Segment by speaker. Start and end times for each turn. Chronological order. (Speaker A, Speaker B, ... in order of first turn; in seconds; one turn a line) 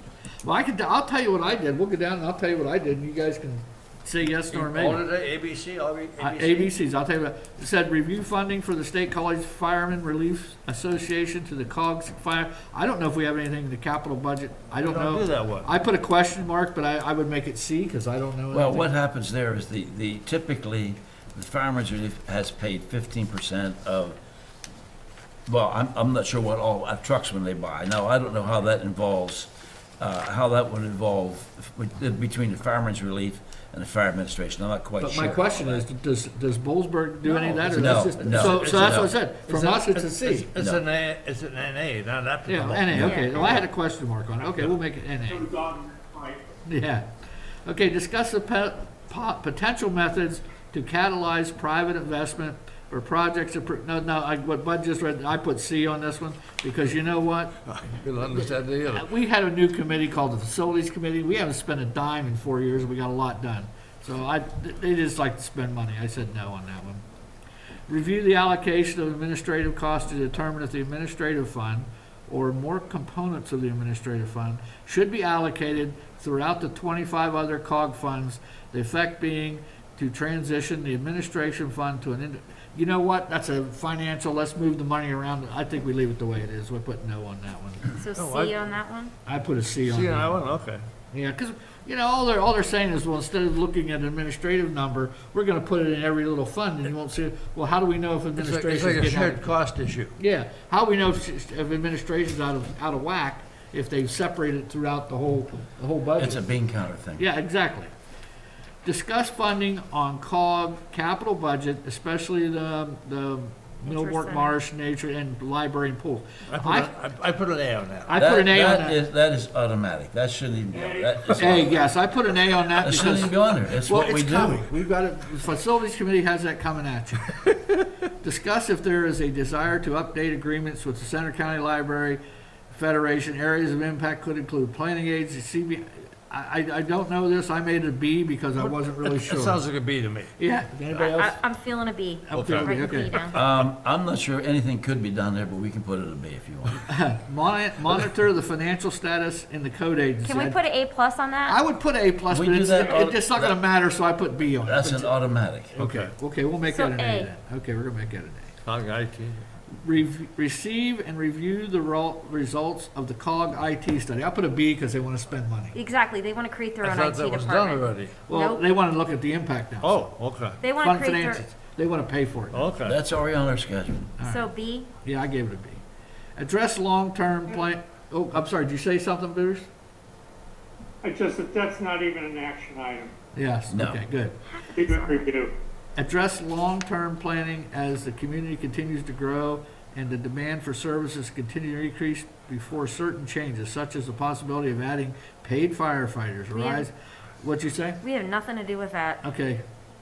Speaker A: 0.4-5.0
Speaker B: 4.5-6.7
Speaker A: 6.2-18.9
Speaker B: 14.8-15.7
Speaker C: 18.5-24.2
Speaker C: 25.5-35.9
Speaker A: 35.0-40.5
Speaker B: 37.2-43.6
Speaker C: 37.7-39.1
Speaker C: 40.6-40.8
Speaker A: 42.5-45.5
Speaker D: 43.0-43.6
Speaker E: 45.3-46.5
Speaker A: 46.7-47.1
Speaker A: 47.6-57.5
Speaker B: 57.7-59.1
Speaker A: 58.3-67.0
Speaker A: 67.9-87.9
Speaker D: 88.0-89.1
Speaker B: 88.2-88.7
Speaker A: 89.3-90.4
Speaker B: 89.8-90.9
Speaker A: 91.1-99.5
Speaker B: 98.4-100.2
Speaker A: 100.2-106.4
Speaker C: 106.2-107.3
Speaker A: 107.2-107.9
Speaker A: 108.8-116.9
Speaker D: 113.8-114.6
Speaker B: 116.5-118.1
Speaker A: 118.1-119.0
Speaker C: 118.2-121.8
Speaker E: 120.7-121.4
Speaker A: 121.4-139.6
Speaker C: 122.8-124.7
Speaker B: 138.6-140.3
Speaker A: 140.4-141.4
Speaker D: 140.9-143.4
Speaker A: 142.3-143.3
Speaker B: 142.3-142.9
Speaker C: 143.3-146.8
Speaker A: 146.9-150.6
Speaker D: 150.2-151.6
Speaker A: 151.4-155.1
Speaker C: 152.3-153.6
Speaker C: 154.6-155.7
Speaker A: 155.7-158.5
Speaker B: 155.8-156.1
Speaker D: 156.7-157.3
Speaker B: 158.6-159.5
Speaker A: 159.8-165.8
Speaker D: 165.7-168.7
Speaker B: 166.8-168.2
Speaker A: 168.3-170.1
Speaker B: 169.8-170.6
Speaker D: 170.6-171.5
Speaker A: 170.7-172.8
Speaker B: 172.5-173.0
Speaker C: 172.8-174.1
Speaker A: 174.2-174.5
Speaker D: 174.2-174.9
Speaker A: 175.0-175.8
Speaker A: 176.4-179.7
Speaker E: 181.0-183.1
Speaker A: 183.3-184.4
Speaker C: 183.7-184.0
Speaker D: 184.5-185.3
Speaker E: 184.8-185.6
Speaker A: 186.0-198.0
Speaker D: 196.5-196.9
Speaker D: 198.0-199.2
Speaker A: 199.2-199.6